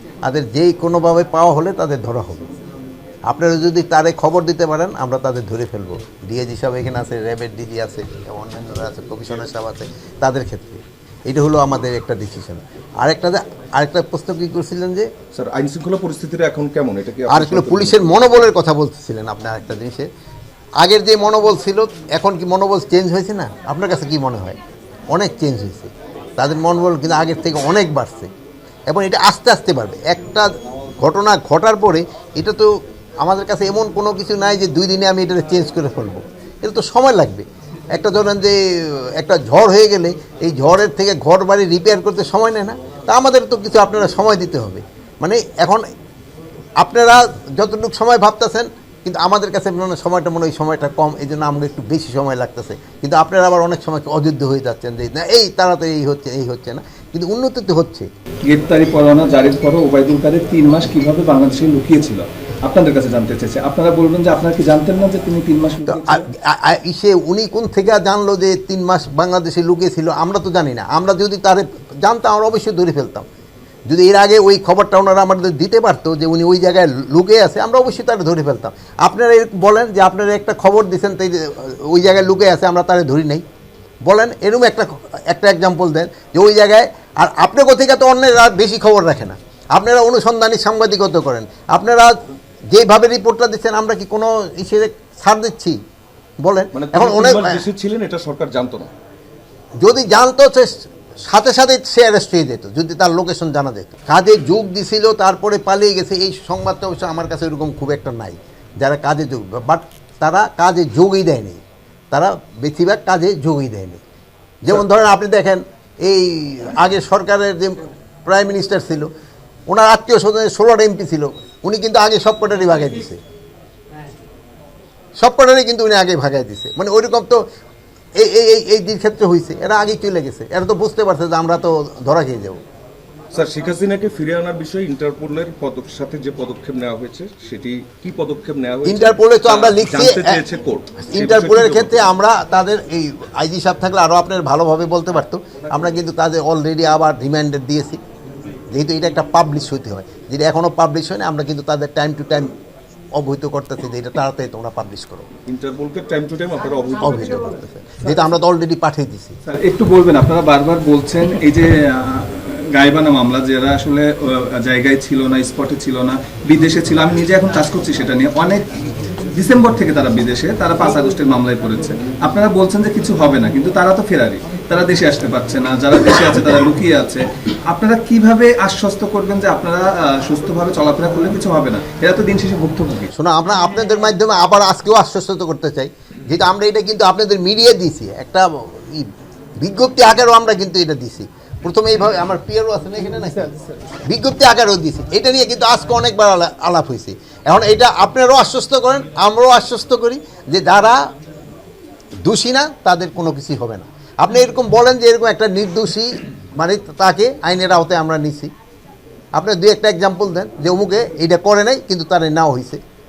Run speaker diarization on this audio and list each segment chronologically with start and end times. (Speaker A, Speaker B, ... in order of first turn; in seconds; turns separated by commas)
Speaker A: 0.2-2.5, Speaker A: 3.3-15.1, Speaker B: 15.3-18.2, Speaker A: 17.3-20.1, Speaker A: 20.8-24.6, Speaker A: 25.1-28.3, Speaker A: 28.9-45.9, Speaker A: 46.8-58.1, Speaker C: 58.4-66.3, Speaker A: 65.9-73.3, Speaker A: 73.9-83.4, Speaker A: 84.1-92.2, Speaker A: 92.7-95.8, Speaker A: 96.4-97.6, Speaker B: 96.7-98.9, Speaker A: 99.8-114.0, Speaker A: 114.6-119.1, Speaker A: 119.7-123.2, Speaker A: 125.2-127.4, Speaker A: 128.2-132.6, Speaker B: 133.3-142.1, Speaker A: 138.8-140.4, Speaker A: 141.0-148.0, Speaker A: 148.7-152.5, Speaker A: 153.1-155.3, Speaker B: 155.4-157.5, Speaker A: 157.0-159.4, Speaker C: 159.5-168.7, Speaker C: 169.3-183.1, Speaker A: 183.1-189.1, Speaker A: 189.6-201.0, Speaker A: 202.2-208.5, Speaker A: 209.4-212.8